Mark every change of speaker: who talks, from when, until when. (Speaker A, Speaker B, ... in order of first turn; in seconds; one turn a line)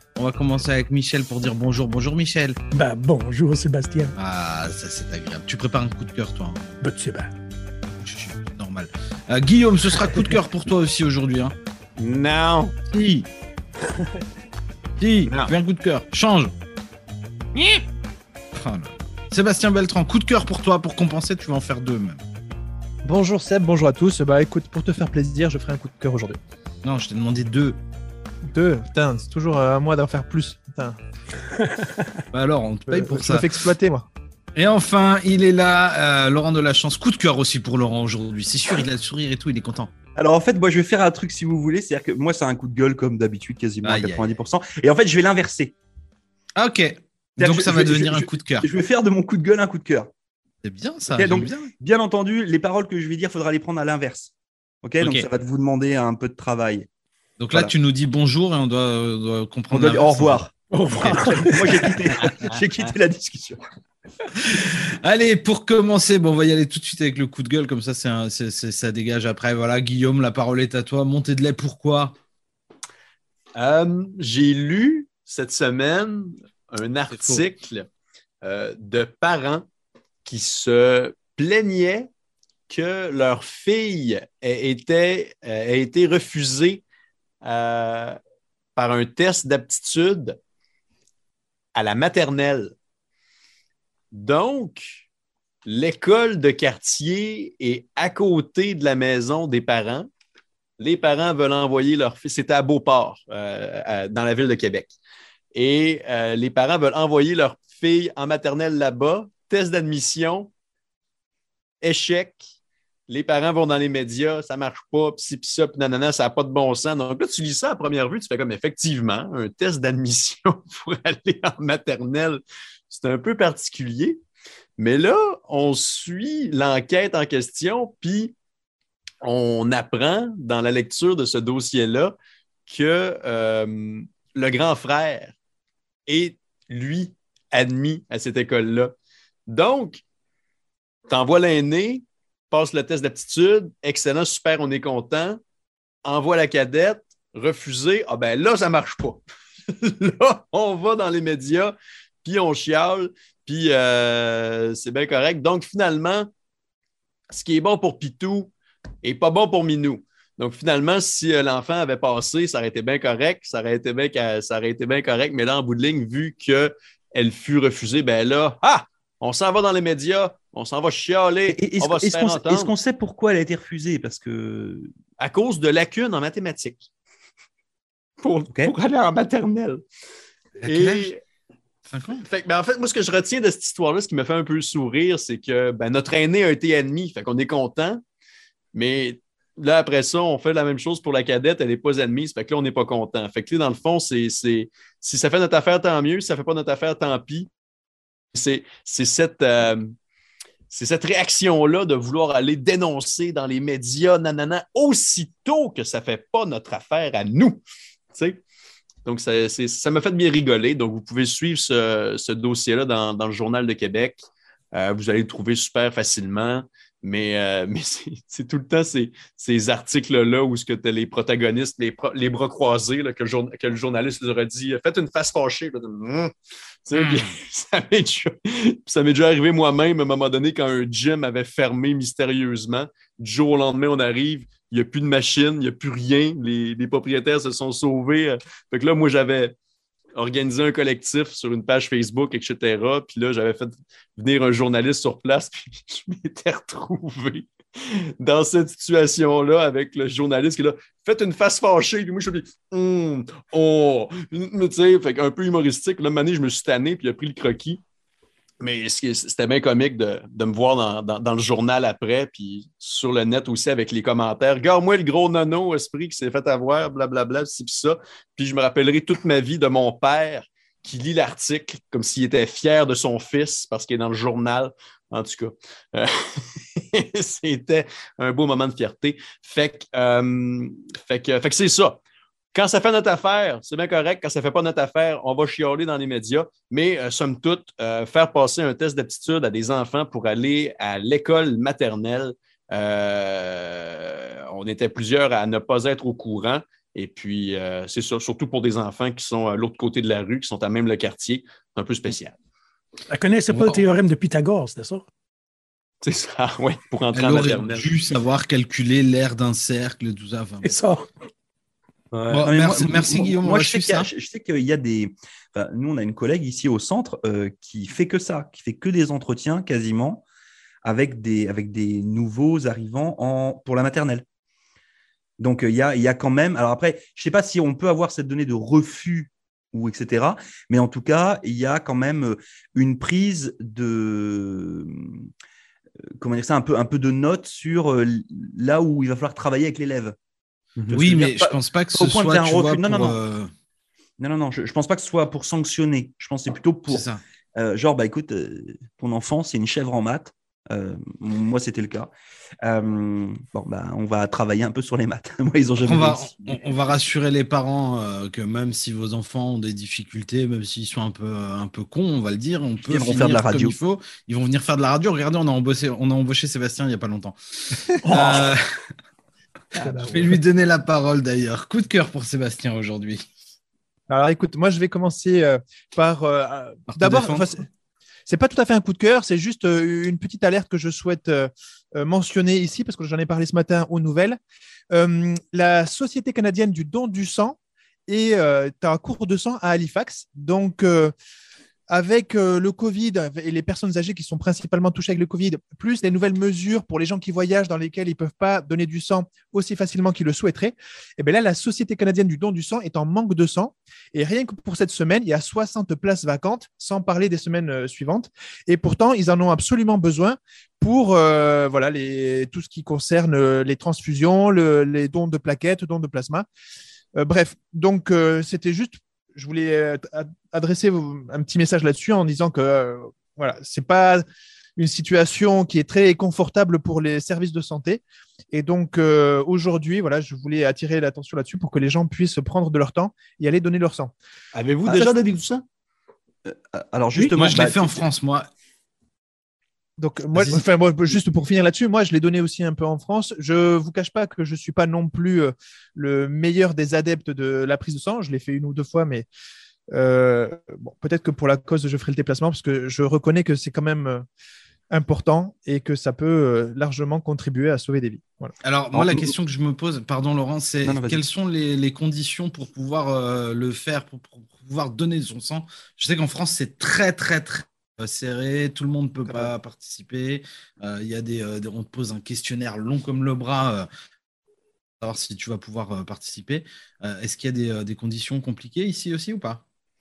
Speaker A: 0.2-2.6
Speaker B: 2.7-4.1
Speaker A: 4.2-6.7
Speaker B: 6.8-7.3
Speaker A: 8.0-11.6
Speaker C: 12.0-12.7
Speaker A: 12.9-13.3
Speaker A: 15.0-16.5
Speaker C: 15.2-15.5
Speaker C: 17.6-17.8
Speaker A: 18.5-22.2
Speaker D: 23.0-26.4
Speaker A: 26.8-27.8
Speaker D: 28.5-31.0
Speaker B: 31.6-32.0
Speaker A: 32.3-33.5
Speaker D: 32.9-34.1
Speaker A: 34.5-39.9
Speaker E: 40.2-45.8
Speaker A: 43.8-44.3
Speaker A: 46.6-48.7
Speaker E: 47.4-50.1
Speaker A: 50.6-51.7
Speaker E: 51.1-54.3
Speaker E: 54.8-56.9
Speaker A: 55.0-55.3
Speaker A: 57.4-60.4
Speaker E: 59.7-63.6
Speaker B: 60.7-61.9
Speaker A: 64.5-72.2
Speaker C: 73.5-77.9
Speaker A: 77.1-77.5
Speaker C: 78.4-79.7
Speaker C: 80.2-82.1
Speaker C: 82.7-86.8
Speaker C: 87.4-88.2
Speaker C: 88.8-90.4
Speaker C: 91.8-92.7
Speaker C: 94.1-95.0
Speaker C: 95.7-100.1
Speaker C: 100.8-104.9
Speaker C: 105.5-110.5
Speaker C: 111.8-112.4
Speaker C: 113.1-124.2
Speaker C: 124.8-128.3
Speaker C: 129.2-132.1
Speaker C: 132.7-135.3
Speaker C: 136.1-138.9
Speaker C: 139.5-140.0
Speaker C: 141.1-145.4
Speaker C: 146.0-156.3
Speaker C: 157.3-172.7
Speaker E: 171.5-174.9
Speaker C: 175.2-176.8
Speaker C: 178.2-179.8
Speaker A: 180.6-181.1
Speaker C: 180.7-181.2
Speaker A: 181.9-182.2
Speaker C: 182.2-188.0
Speaker C: 188.7-197.5
Speaker C: 198.3-199.9
Speaker C: 200.7-207.6
Speaker C: 208.1-208.4
Speaker C: 209.0-226.3
Speaker C: 226.8-239.5
Speaker C: 240.2-257.8
Speaker C: 258.6-282.0
Speaker C: 282.5-302.4
Speaker B: 303.1-305.1
Speaker A: 303.5-303.8
Speaker C: 306.0-307.9
Speaker A: 307.1-310.8
Speaker B: 310.6-311.1
Speaker C: 312.1-312.5
Speaker A: 312.3-314.1
Speaker E: 312.4-320.2
Speaker E: 320.8-324.2
Speaker E: 325.4-335.3
Speaker E: 336.2-340.2
Speaker E: 340.9-343.2
Speaker A: 340.9-343.5
Speaker E: 344.2-352.1
Speaker A: 346.9-347.2
Speaker E: 352.6-356.6
Speaker A: 355.8-368.6
Speaker E: 362.9-363.8
Speaker B: 368.0-368.5
Speaker B: 369.8-370.3
Speaker A: 369.9-373.2
Speaker D: 374.1-377.7
Speaker A: 376.9-377.5
Speaker D: 378.3-384.4
Speaker D: 384.9-391.1
Speaker D: 391.9-416.5
Speaker D: 417.2-424.2
Speaker D: 424.8-434.1
Speaker C: 434.5-435.6
Speaker E: 436.5-438.1
Speaker A: 437.4-438.5
Speaker D: 440.0-449.2
Speaker D: 449.9-454.2
Speaker D: 454.9-458.5
Speaker A: 458.6-473.9
Speaker E: 458.9-459.3
Speaker E: 460.8-461.2
Speaker A: 475.0-479.6